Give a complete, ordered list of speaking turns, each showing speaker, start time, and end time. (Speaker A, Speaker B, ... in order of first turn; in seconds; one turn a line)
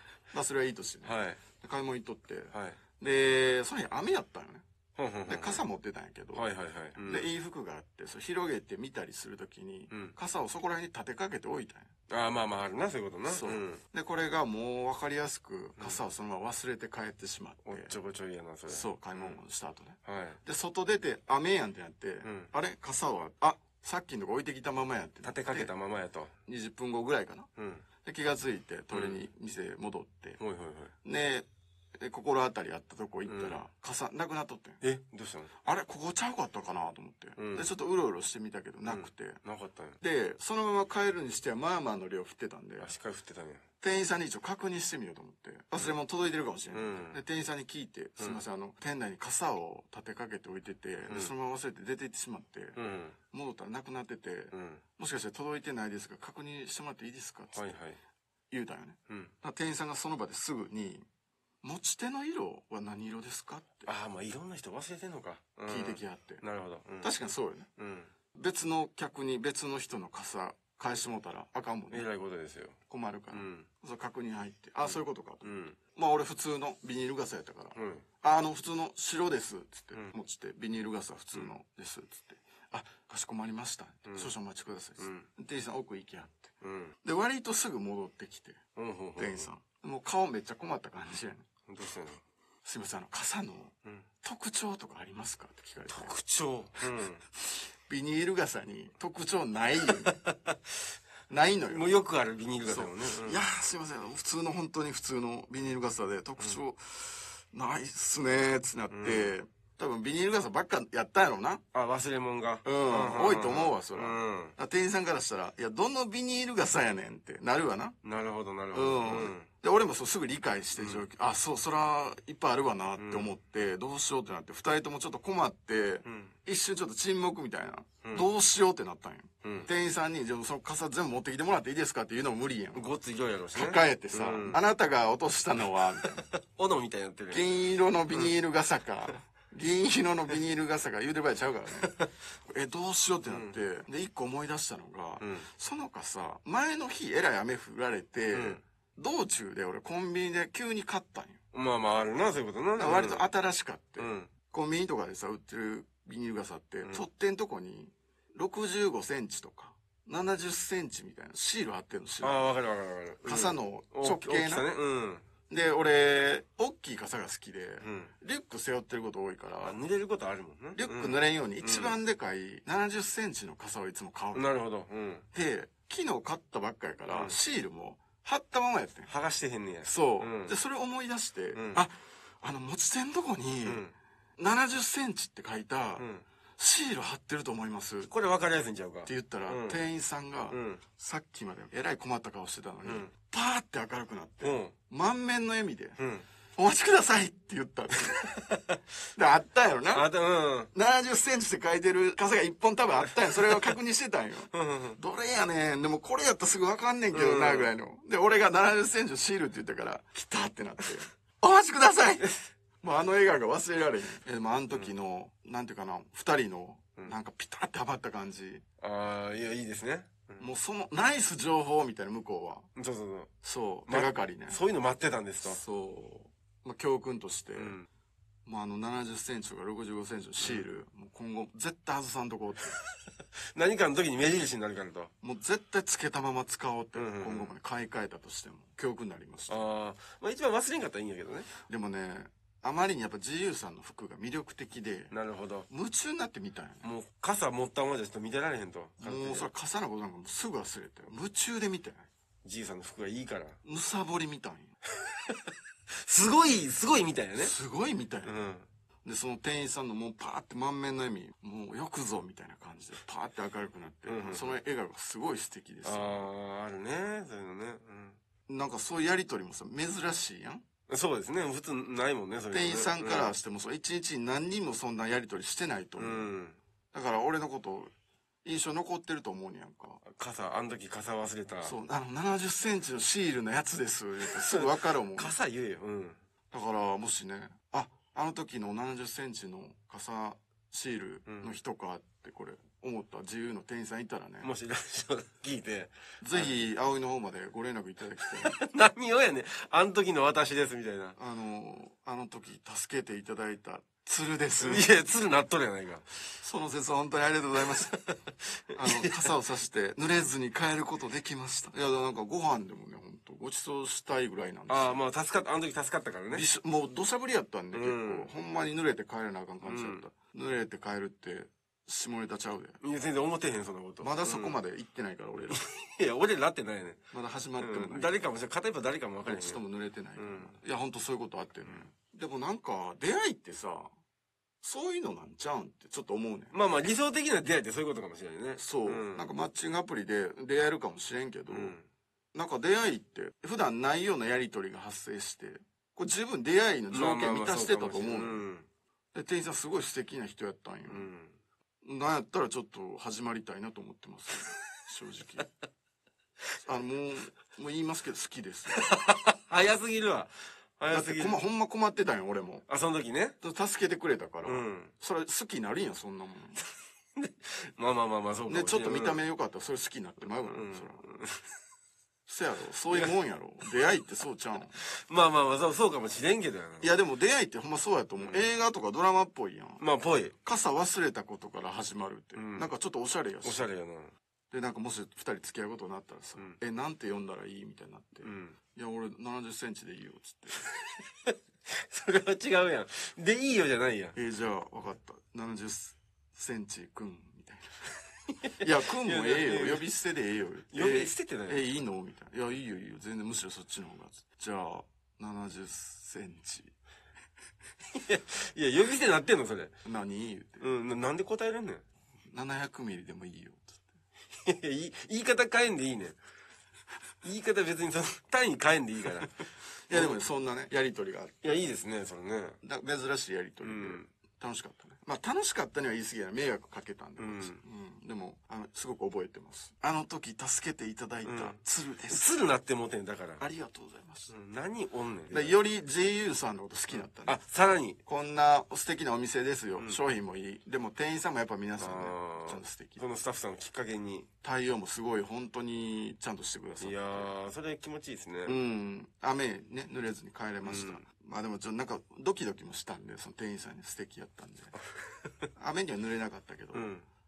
Speaker A: 0.3-4.6
Speaker B: 1.0-1.4
Speaker B: 2.5-2.8
Speaker B: 5.0-5.6
Speaker A: 5.3-11.9
Speaker B: 6.3-7.3
Speaker B: 12.1-13.8
Speaker A: 13.2-18.0
Speaker B: 17.6-19.4
Speaker A: 18.7-25.7
Speaker B: 20.0-20.4
Speaker B: 22.2-22.5
Speaker B: 25.2-26.3
Speaker A: 26.5-27.5
Speaker B: 27.6-27.8
Speaker A: 28.0-30.4
Speaker B: 28.9-29.2
Speaker B: 30.4-30.9
Speaker A: 31.0-31.5
Speaker A: 32.0-34.8
Speaker B: 33.2-33.6
Speaker B: 34.8-35.5
Speaker A: 35.6-39.4
Speaker B: 37.4-37.7
Speaker B: 38.9-40.0
Speaker A: 40.0-42.9
Speaker B: 42.8-43.6
Speaker A: 43.8-52.8
Speaker B: 46.7-47.2
Speaker B: 52.8-53.1
Speaker A: 53.3-57.7
Speaker B: 54.5-54.8
Speaker B: 57.5-58.0
Speaker A: 58.5-61.0
Speaker B: 59.1-59.3
Speaker A: 61.6-63.9
Speaker B: 63.9-67.1
Speaker A: 65.7-66.4
Speaker A: 67.0-67.7
Speaker B: 67.8-68.1
Speaker A: 68.3-72.0
Speaker B: 71.9-72.8
Speaker A: 72.9-86.5
Speaker B: 73.3-73.7
Speaker B: 74.8-75.8
Speaker B: 77.7-78.0
Speaker B: 84.0-84.3
Speaker B: 85.0-85.3
Speaker B: 86.6-86.9
Speaker A: 87.0-88.6
Speaker B: 88.8-89.5
Speaker A: 89.2-91.5
Speaker B: 91.7-92.2
Speaker A: 92.6-96.1
Speaker B: 95.9-97.2
Speaker A: 97.4-100.1
Speaker B: 99.9-100.6
Speaker A: 101.3-102.0
Speaker B: 101.7-103.4
Speaker A: 102.6-111.6
Speaker B: 108.9-109.3
Speaker B: 111.7-114.5
Speaker A: 112.6-118.0
Speaker B: 118.0-119.5
Speaker A: 118.7-132.9
Speaker B: 120.8-121.0
Speaker B: 123.0-123.3
Speaker B: 126.0-126.3
Speaker B: 129.4-129.7
Speaker B: 132.7-134.6
Speaker A: 133.5-136.2
Speaker B: 135.7-137.6
Speaker A: 137.3-151.4
Speaker B: 143.2-143.5
Speaker B: 145.2-145.4
Speaker B: 148.3-148.6
Speaker B: 151.5-153.2
Speaker A: 152.8-162.5
Speaker B: 154.0-154.3
Speaker B: 162.2-165.2
Speaker A: 163.2-164.7
Speaker A: 165.5-169.8
Speaker B: 167.8-168.1
Speaker B: 169.6-172.0
Speaker A: 170.7-174.4
Speaker B: 174.3-175.2
Speaker A: 175.3-179.1
Speaker B: 177.1-177.3
Speaker B: 179.1-180.5
Speaker A: 179.8-183.8
Speaker B: 181.5-181.8
Speaker B: 183.6-183.9
Speaker A: 184.4-188.1
Speaker B: 186.0-186.2
Speaker B: 188.1-189.8
Speaker A: 189.1-196.0
Speaker B: 190.5-190.8
Speaker B: 194.4-194.7
Speaker B: 196.0-196.2
Speaker A: 196.6-198.3
Speaker B: 198.2-198.8
Speaker A: 199.1-200.1
Speaker B: 199.9-200.7
Speaker A: 200.7-212.3
Speaker B: 203.0-203.7
Speaker B: 204.5-205.0
Speaker B: 207.1-207.7
Speaker B: 212.2-212.5
Speaker A: 212.8-218.6
Speaker B: 218.8-220.5
Speaker A: 220.4-222.7
Speaker B: 222.8-223.3
Speaker A: 223.4-224.6
Speaker B: 223.9-225.6
Speaker A: 225.4-227.8
Speaker B: 227.6-227.9
Speaker A: 228.4-232.8
Speaker B: 233.5-235.1
Speaker A: 235.2-239.7
Speaker B: 236.9-237.5
Speaker B: 239.5-241.5
Speaker A: 241.6-245.1
Speaker B: 245.1-245.7
Speaker A: 245.7-246.9
Speaker B: 246.8-249.5
Speaker A: 249.0-252.1
Speaker B: 252.4-253.6
Speaker A: 253.6-254.8
Speaker B: 256.0-257.5
Speaker A: 257.4-258.4
Speaker B: 258.2-258.7
Speaker A: 259.0-266.3
Speaker B: 264.1-264.6
Speaker B: 265.8-268.2
Speaker A: 268.5-270.6
Speaker B: 270.9-273.3
Speaker A: 272.5-276.3
Speaker B: 276.0-276.6
Speaker A: 276.9-277.9
Speaker A: 278.4-280.0
Speaker B: 280.0-281.7
Speaker A: 281.6-285.4
Speaker B: 284.2-286.2
Speaker A: 286.5-294.5
Speaker B: 291.2-291.5
Speaker B: 294.4-296.6
Speaker A: 296.2-298.5
Speaker B: 298.2-301.1
Speaker A: 301.1-304.9
Speaker B: 304.6-306.0
Speaker A: 306.4-307.9
Speaker B: 307.6-308.2
Speaker B: 308.7-309.3
Speaker A: 308.7-315.0
Speaker B: 314.7-316.4
Speaker A: 316.3-322.8
Speaker B: 317.7-318.3
Speaker B: 319.6-320.0
Speaker B: 322.8-324.6
Speaker A: 324.0-325.6
Speaker B: 325.5-327.0
Speaker A: 327.1-328.2
Speaker B: 327.6-329.6
Speaker A: 329.2-333.9
Speaker B: 330.1-330.6
Speaker A: 334.6-336.6
Speaker B: 336.5-339.3
Speaker A: 338.6-341.8
Speaker B: 341.5-341.9
Speaker A: 342.3-348.4
Speaker B: 346.9-348.7
Speaker A: 349.1-351.1
Speaker B: 350.9-351.4
Speaker A: 351.8-355.5
Speaker A: 356.6-358.8
Speaker B: 358.7-361.4
Speaker A: 360.9-362.7
Speaker B: 362.7-363.4
Speaker A: 363.4-366.6
Speaker B: 364.4-364.9
Speaker B: 367.2-369.2
Speaker A: 368.5-371.0
Speaker B: 370.4-371.4
Speaker A: 372.2-374.8
Speaker B: 372.9-373.1
Speaker B: 374.8-376.9
Speaker A: 376.8-379.8
Speaker B: 378.2-378.5
Speaker B: 379.8-380.3
Speaker A: 380.4-383.6
Speaker B: 382.3-382.7
Speaker B: 383.4-384.1
Speaker A: 384.5-390.6
Speaker B: 388.2-388.6
Speaker B: 391.3-394.1
Speaker A: 394.1-397.9
Speaker B: 398.4-399.9
Speaker A: 398.6-406.7
Speaker B: 400.7-401.7
Speaker B: 407.9-409.7
Speaker A: 409.8-410.7
Speaker B: 410.6-411.8
Speaker A: 412.3-413.8
Speaker B: 414.4-416.2
Speaker B: 417.2-419.4
Speaker A: 419.9-421.4
Speaker B: 419.9-420.2
Speaker B: 421.4-422.6
Speaker A: 422.6-432.3
Speaker B: 423.6-424.1
Speaker B: 427.2-427.6
Speaker B: 431.2-431.6
Speaker B: 432.1-433.4
Speaker A: 433.4-434.3
Speaker B: 434.3-435.6
Speaker A: 435.3-443.0
Speaker B: 436.9-438.0
Speaker B: 441.8-444.3
Speaker A: 444.4-447.3
Speaker B: 446.8-448.5
Speaker A: 448.4-454.8
Speaker B: 450.6-451.0
Speaker A: 455.6-456.9
Speaker B: 456.7-457.1